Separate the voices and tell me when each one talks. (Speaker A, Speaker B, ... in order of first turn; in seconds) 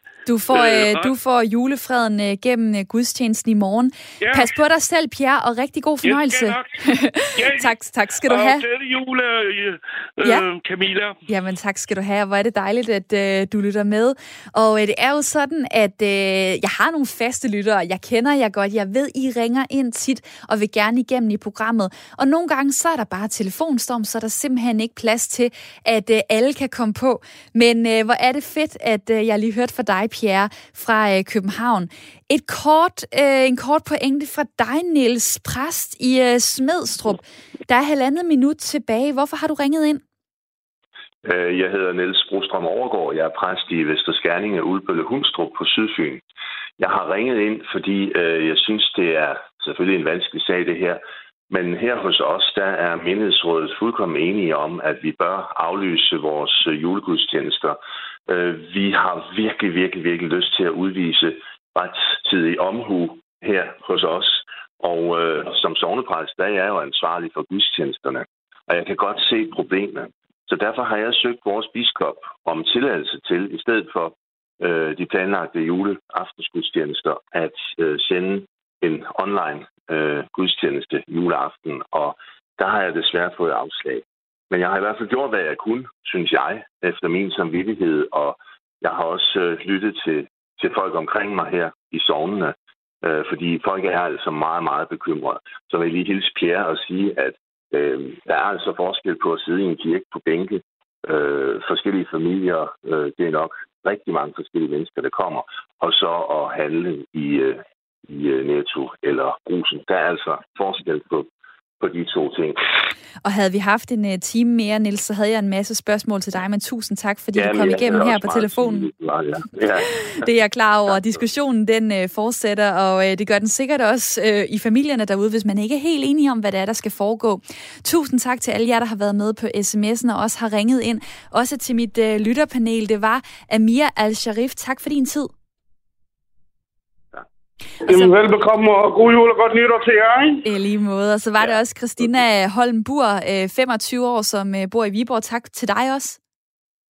Speaker A: 0.3-8.7, 11.3-40.0, 113.2-118.9, 120.0-135.3, 140.4-146.2
Speaker B: 0.5-1.1, 4.2-4.5, 6.0-6.8, 7.3-7.8, 8.3-11.2
Speaker C: 41.2-46.2, 46.8-111.3, 111.8-112.6, 117.3-120.0
Speaker D: 137.9-140.4